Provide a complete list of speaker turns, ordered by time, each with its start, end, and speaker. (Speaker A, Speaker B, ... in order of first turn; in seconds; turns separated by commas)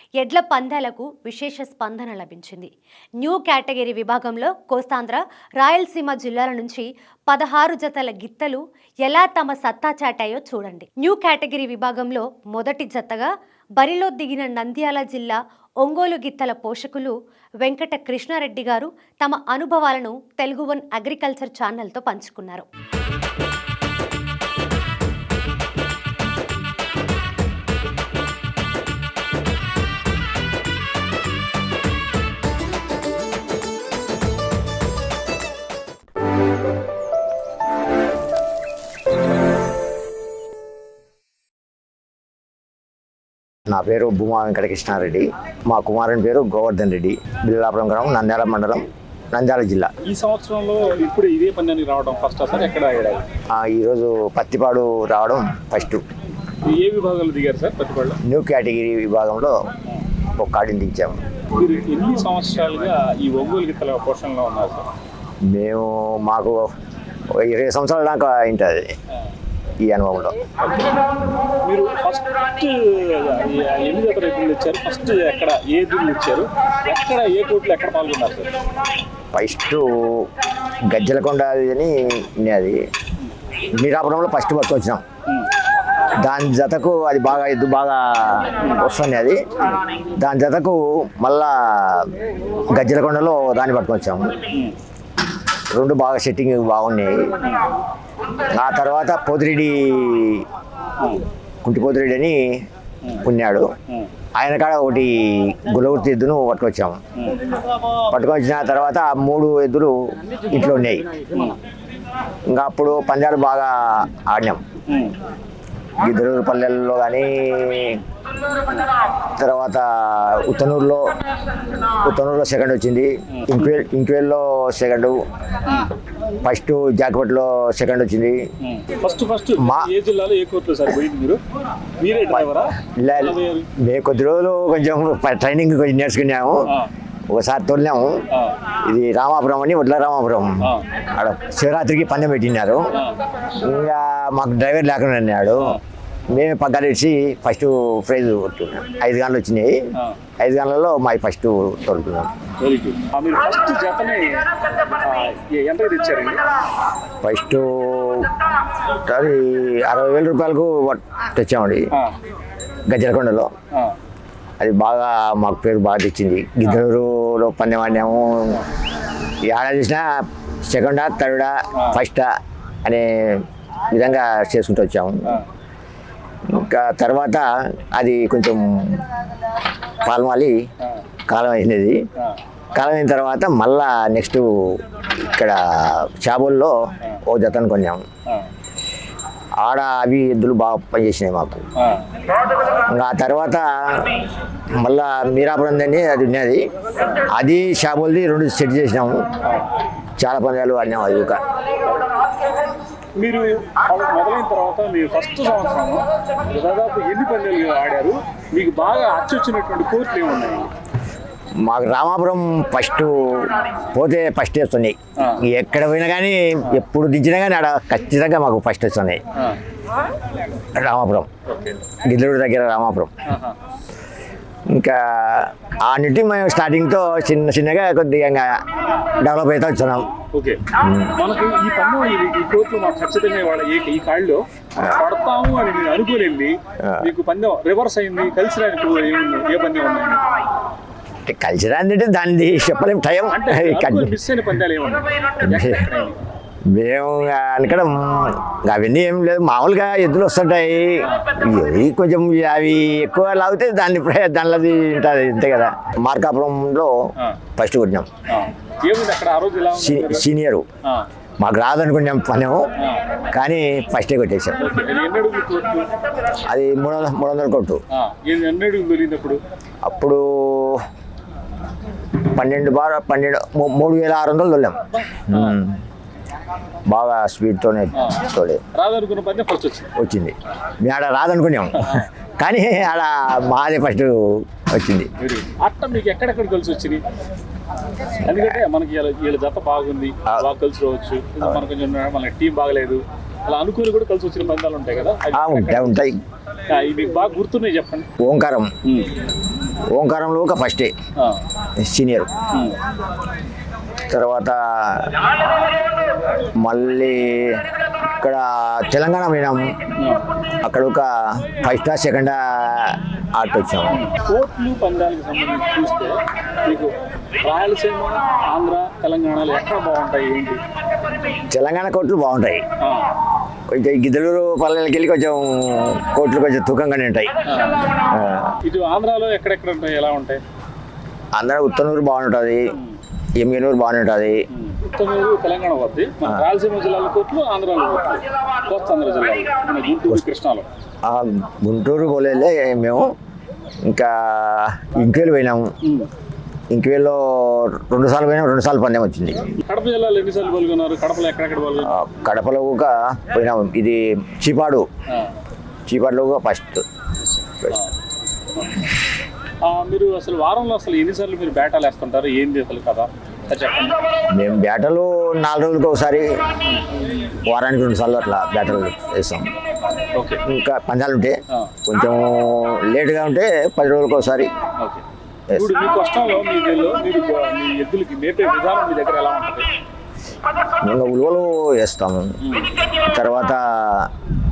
Speaker A: 0.2-2.7, Speaker A: 3.2-22.7, Speaker B: 43.7-49.9, Speaker C: 50.1-53.2, Speaker B: 53.5-56.0, Speaker C: 56.6-58.2, Speaker B: 58.2-59.6, Speaker B: 60.4-61.2, Speaker C: 61.5-64.9, Speaker B: 65.5-66.7, Speaker B: 67.3-68.9, Speaker B: 69.8-70.5, Speaker C: 70.7-71.0, Speaker C: 71.6-78.5, Speaker B: 79.3-80.3, Speaker B: 80.9-82.8, Speaker B: 83.7-85.0, Speaker B: 86.2-89.5, Speaker B: 90.2-92.1, Speaker B: 92.7-94.4, Speaker B: 95.7-97.3, Speaker B: 98.5-100.5, Speaker B: 101.6-102.4, Speaker B: 103.2-103.7, Speaker B: 104.4-107.0, Speaker B: 108.1-110.0, Speaker B: 110.5-111.1, Speaker B: 112.5-114.6, Speaker C: 114.9-115.1, Speaker B: 116.0-118.0, Speaker B: 119.4-121.1, Speaker B: 122.0-125.2, Speaker C: 123.3-123.7, Speaker B: 126.4-128.4, Speaker C: 128.6-131.4, Speaker B: 129.6-129.9, Speaker C: 132.0-133.7, Speaker B: 132.3-136.7, Speaker B: 137.3-138.2, Speaker B: 138.8-142.9, Speaker B: 143.6-145.8, Speaker B: 146.3-149.9, Speaker B: 150.4-152.3, Speaker C: 152.6-156.4, Speaker B: 157.2-158.4, Speaker B: 158.9-161.9, Speaker B: 162.9-163.5, Speaker B: 164.6-168.6, Speaker B: 169.5-172.3, Speaker C: 171.8-172.0, Speaker B: 172.8-175.4, Speaker B: 176.5-179.1, Speaker B: 180.0-180.6, Speaker B: 181.3-182.0, Speaker B: 182.8-188.0, Speaker B: 189.6-191.7, Speaker C: 191.8-192.0, Speaker B: 192.9-194.2, Speaker B: 194.8-196.6, Speaker B: 197.3-199.2, Speaker B: 200.2-201.4, Speaker C: 203.2-210.7, Speaker B: 211.6-219.2, Speaker B: 220.8-221.3, Speaker C: 221.5-221.8, Speaker B: 222.0-223.1, Speaker C: 223.3-223.6, Speaker B: 224.7-228.6, Speaker B: 229.2-230.1, Speaker C: 230.2-230.6, Speaker B: 230.8-231.1, Speaker C: 231.2-240.3, Speaker B: 236.8-237.1, Speaker B: 241.3-244.2, Speaker C: 243.3-246.2, Speaker B: 245.4-245.9, Speaker B: 246.7-256.9, Speaker B: 257.6-258.1, Speaker C: 258.3-260.3, Speaker B: 259.8-260.6, Speaker B: 261.4-262.7, Speaker B: 263.3-264.6, Speaker C: 264.6-265.9, Speaker B: 266.5-267.8, Speaker C: 267.9-269.4, Speaker B: 269.8-270.8, Speaker B: 272.3-275.8, Speaker C: 274.9-275.6, Speaker B: 276.9-278.6, Speaker C: 278.0-278.2, Speaker C: 278.8-279.9, Speaker B: 280.0-285.1, Speaker C: 281.8-282.1, Speaker C: 285.2-287.0, Speaker B: 288.2-288.6, Speaker C: 288.2-296.1, Speaker B: 295.3-296.2, Speaker C: 296.7-298.1, Speaker B: 298.2-298.7, Speaker C: 298.9-299.1, Speaker B: 299.9-300.9, Speaker B: 301.8-302.3, Speaker B: 304.1-305.2, Speaker B: 306.6-307.6, Speaker B: 308.2-309.6, Speaker C: 310.0-310.2, Speaker B: 310.6-314.0, Speaker C: 313.9-320.6, Speaker B: 321.5-322.6, Speaker C: 322.8-323.1, Speaker B: 323.7-327.3, Speaker C: 327.5-327.9, Speaker B: 328.0-328.6, Speaker C: 328.6-330.4, Speaker B: 331.3-332.6, Speaker B: 333.4-334.4, Speaker C: 334.5-340.7, Speaker B: 341.0-343.1, Speaker B: 343.9-345.7, Speaker C: 345.8-346.1, Speaker B: 346.7-349.5, Speaker C: 349.6-351.9, Speaker B: 351.8-354.9, Speaker B: 355.9-356.8, Speaker C: 357.7-357.9, Speaker C: 358.6-358.8, Speaker C: 359.6-364.0, Speaker B: 364.3-366.4, Speaker B: 367.5-369.5, Speaker C: 370.1-370.4, Speaker B: 370.4-374.5, Speaker C: 375.6-379.7, Speaker B: 380.8-382.4, Speaker C: 382.4-382.7, Speaker B: 383.0-384.1